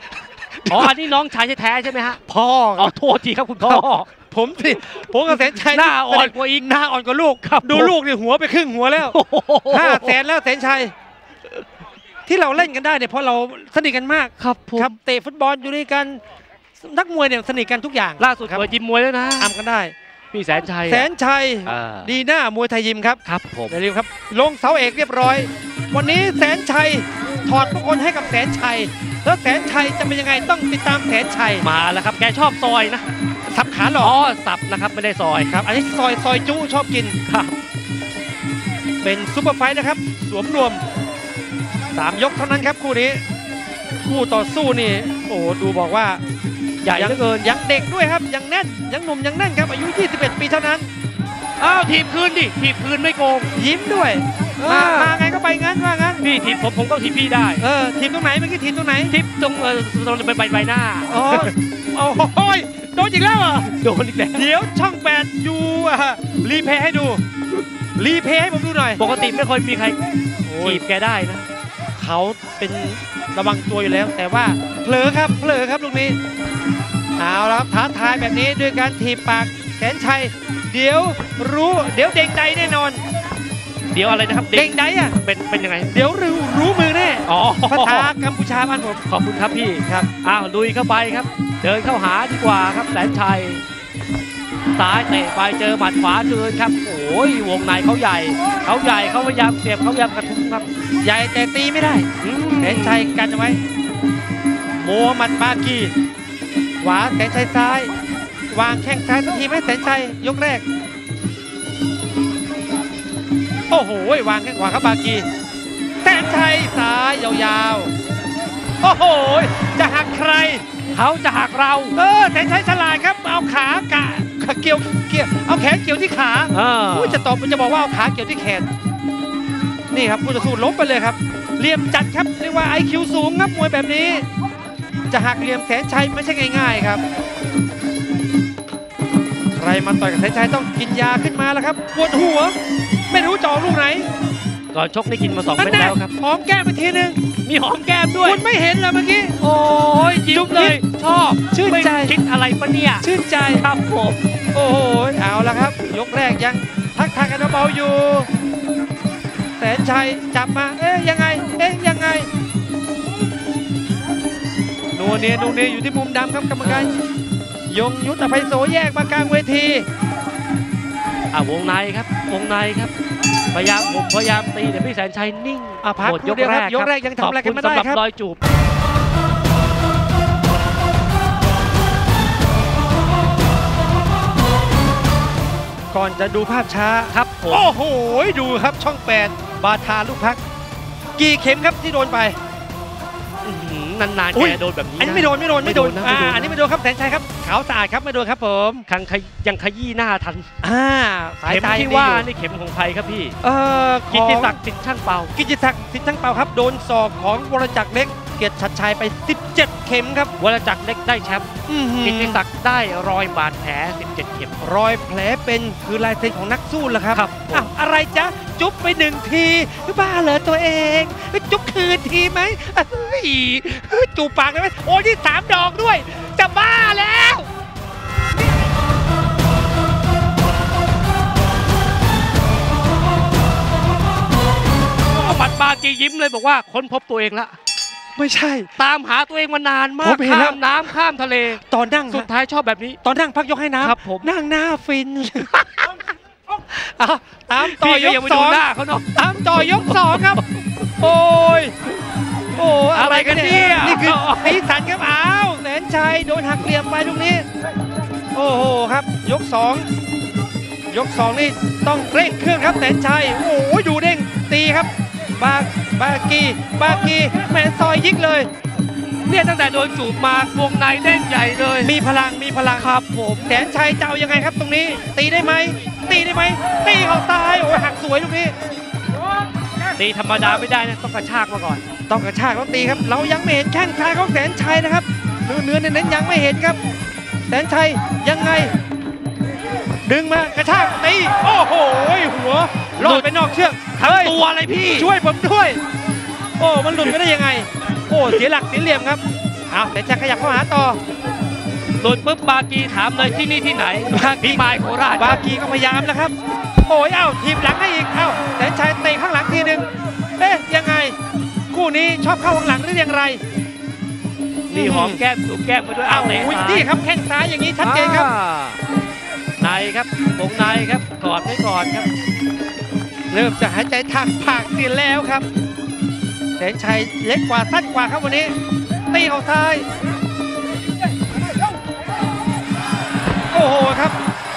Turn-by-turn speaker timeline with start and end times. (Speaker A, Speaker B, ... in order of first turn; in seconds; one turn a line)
Speaker A: 0.6-0.9
Speaker B: 0.7-2.2
Speaker A: 2.3-2.9
Speaker B: 2.8-4.1
Speaker A: 3.6-9.2
Speaker B: 5.3-6.7
Speaker B: 7.4-8.0
Speaker B: 9.0-10.2
Speaker A: 9.7-10.9
Speaker A: 12.3-16.2
Speaker B: 14.4-14.9
Speaker A: 16.8-18.7
Speaker B: 18.2-19.5
Speaker A: 19.4-19.9
Speaker B: 20.3-21.1
Speaker A: 20.9-31.7
Speaker B: 21.7-22.1
Speaker B: 23.2-23.8
Speaker B: 31.6-33.1
Speaker A: 33.5-34.2
Speaker B: 34.0-35.5
Speaker A: 35.4-37.2
Speaker B: 37.3-37.6
Speaker A: 39.0-40.8
Speaker A: 41.9-43.2
Speaker A: 44.0-46.2
Speaker B: 46.8-47.5
Speaker A: 46.9-50.9
Speaker B: 51.6-53.5
Speaker A: 53.5-56.2
Speaker B: 54.6-55.2
Speaker B: 56.2-57.6
Speaker A: 57.6-59.1
Speaker B: 59.1-61.5
Speaker A: 61.1-63.7
Speaker B: 63.7-64.5
Speaker A: 64.3-67.2
Speaker A: 68.0-69.0
Speaker B: 69.0-70.0
Speaker A: 70.5-70.8
Speaker B: 70.6-71.5
Speaker A: 72.0-76.2
Speaker A: 77.2-83.0
Speaker B: 83.9-85.9
Speaker A: 84.5-85.2
Speaker A: 85.9-89.0
Speaker B: 87.3-88.1
Speaker B: 89.1-93.6
Speaker A: 89.8-90.1
Speaker B: 94.8-100.7
Speaker A: 101.0-102.1
Speaker B: 102.2-103.2
Speaker A: 102.6-103.6
Speaker A: 104.7-105.9
Speaker A: 106.8-107.9
Speaker A: 108.5-110.7
Speaker A: 113.7-115.3
Speaker A: 116.0-117.9
Speaker A: 118.8-120.7
Speaker B: 120.9-121.9
Speaker A: 122.0-128.7
Speaker B: 126.5-127.3
Speaker A: 129.9-134.3
Speaker A: 135.1-137.0
Speaker A: 139.6-142.6
Speaker A: 143.1-144.1
Speaker B: 144.7-146.1
Speaker A: 145.6-147.2
Speaker B: 147.4-148.4
Speaker A: 148.2-149.4
Speaker B: 149.4-154.2
Speaker A: 150.3-150.8
Speaker A: 151.5-152.2
Speaker A: 153.0-153.6
Speaker A: 154.5-158.3
Speaker A: 159.6-162.3
Speaker A: 164.9-167.0
Speaker B: 166.6-167.0
Speaker A: 167.7-169.9
Speaker B: 171.3-172.9
Speaker B: 173.5-178.4
Speaker A: 175.8-178.0
Speaker A: 185.9-190.4
Speaker B: 187.1-187.7
Speaker A: 191.2-192.4
Speaker B: 193.4-196.6
Speaker A: 194.3-198.9
Speaker B: 198.9-200.5
Speaker A: 200.6-202.3
Speaker B: 201.5-203.4
Speaker A: 203.4-204.6
Speaker B: 204.1-205.3
Speaker A: 205.3-210.3
Speaker B: 210.4-211.5
Speaker A: 211.7-212.4
Speaker B: 212.0-214.6
Speaker A: 214.6-227.5
Speaker B: 217.1-217.7
Speaker B: 235.1-237.6
Speaker A: 238.2-238.7
Speaker B: 238.8-243.0
Speaker A: 240.0-240.7
Speaker A: 241.6-242.3
Speaker A: 243.0-250.4
Speaker B: 243.8-244.3
Speaker B: 247.6-250.9
Speaker A: 251.0-251.8
Speaker A: 252.5-257.5
Speaker B: 252.9-254.6
Speaker A: 258.3-259.9
Speaker A: 260.9-268.5
Speaker B: 269.2-271.9
Speaker A: 271.8-278.6
Speaker B: 272.8-273.5
Speaker B: 280.0-281.8
Speaker A: 282.1-286.8
Speaker A: 287.5-288.7
Speaker A: 290.0-294.4
Speaker B: 293.0-293.3
Speaker B: 294.0-295.1
Speaker A: 294.9-295.8
Speaker A: 296.6-301.0
Speaker B: 302.0-305.4
Speaker A: 304.1-304.6
Speaker A: 305.2-309.9
Speaker A: 310.4-311.2
Speaker A: 311.7-313.4
Speaker B: 314.7-316.9
Speaker A: 314.7-315.2
Speaker A: 316.1-318.3
Speaker B: 317.8-318.8
Speaker B: 319.6-322.1
Speaker A: 323.3-325.5
Speaker A: 326.6-328.6
Speaker A: 329.1-329.9
Speaker A: 333.5-334.2